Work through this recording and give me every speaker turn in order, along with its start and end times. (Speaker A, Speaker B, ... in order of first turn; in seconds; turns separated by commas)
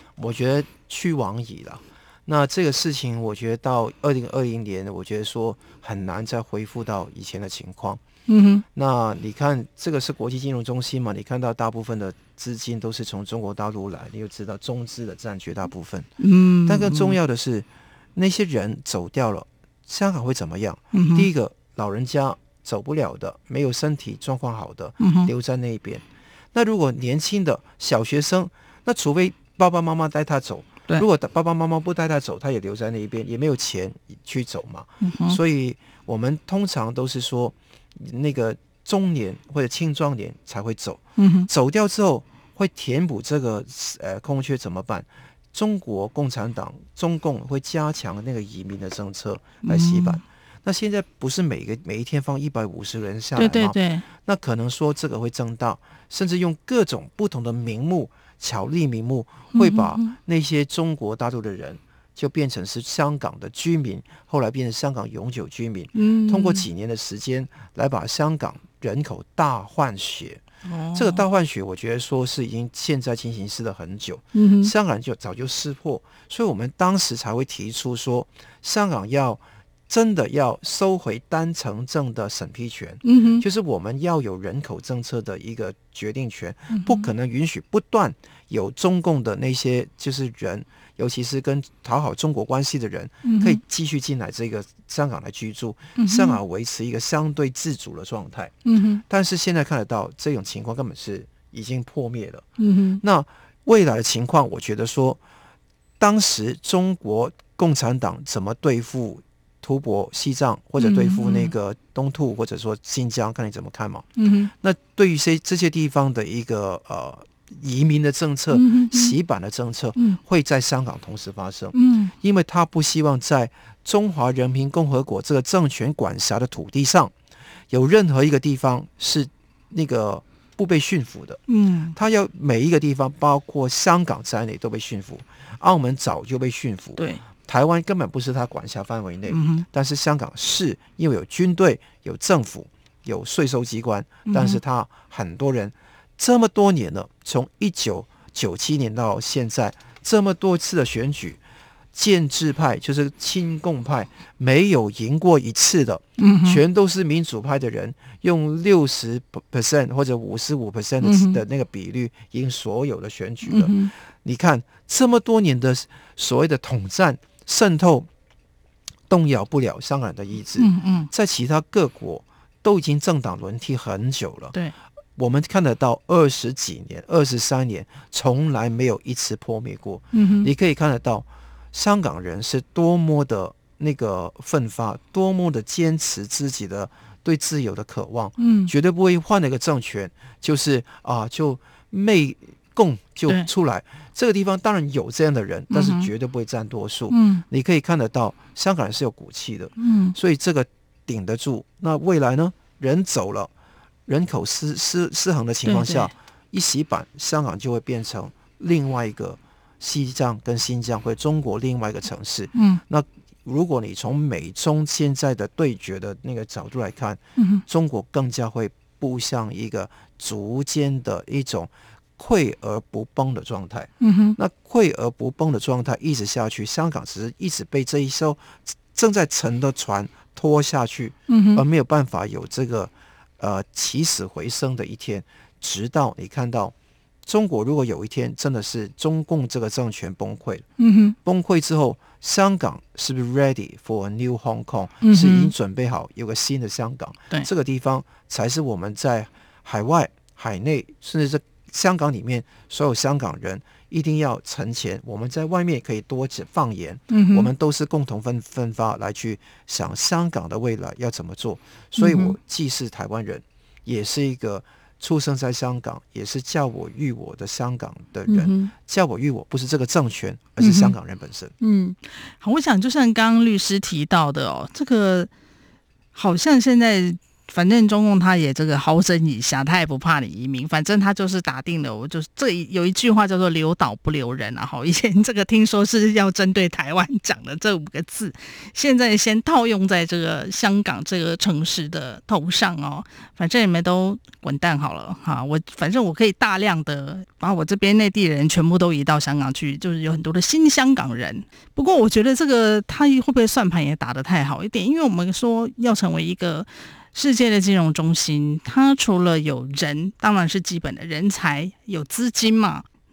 Speaker A: 0.2-8.0, Speaker B: 8.3-8.6, Speaker A: 8.7-70.4, Speaker B: 16.2-17.2, Speaker B: 20.9-21.3, Speaker B: 25.0-25.3, Speaker B: 35.0-35.4, Speaker B: 41.2-41.5, Speaker B: 49.6-50.2, Speaker B: 53.4-54.0, Speaker B: 59.5-60.1, Speaker B: 65.9-66.6, Speaker B: 70.6-71.2, Speaker A: 70.9-102.5, Speaker B: 74.3-74.7, Speaker B: 83.0-83.4, Speaker B: 86.7-87.1, Speaker B: 93.2-93.6, Speaker B: 96.0-96.4, Speaker B: 98.7-99.0, Speaker B: 102.6-103.0, Speaker A: 103.0-105.2, Speaker A: 106.0-127.1, Speaker B: 110.8-111.5, Speaker B: 114.2-114.5, Speaker B: 118.5-119.1, Speaker B: 121.7-122.1, Speaker A: 127.7-131.4, Speaker B: 131.5-131.9, Speaker A: 131.9-151.4, Speaker B: 137.0-137.2, Speaker B: 139.3-139.7, Speaker B: 144.2-144.6, Speaker A: 151.9-168.1, Speaker B: 156.2-156.6, Speaker B: 161.0-161.4, Speaker B: 163.4-163.9, Speaker A: 169.1-174.5, Speaker B: 170.6-171.1, Speaker A: 175.2-203.5, Speaker B: 180.1-180.5, Speaker B: 188.4-188.7, Speaker B: 195.7-196.1, Speaker B: 197.1-197.4, Speaker B: 199.8-200.2, Speaker A: 204.1-240.7, Speaker B: 205.6-206.1, Speaker B: 212.5-212.8, Speaker B: 217.4-217.6, Speaker B: 224.0-224.4, Speaker B: 231.3-231.6, Speaker B: 240.8-241.1, Speaker A: 241.2-271.5, Speaker B: 245.0-245.5, Speaker B: 257.1-257.5, Speaker B: 262.0-262.3, Speaker B: 268.3-268.7, Speaker B: 270.6-270.9, Speaker B: 271.6-275.3, Speaker B: 276.1-312.8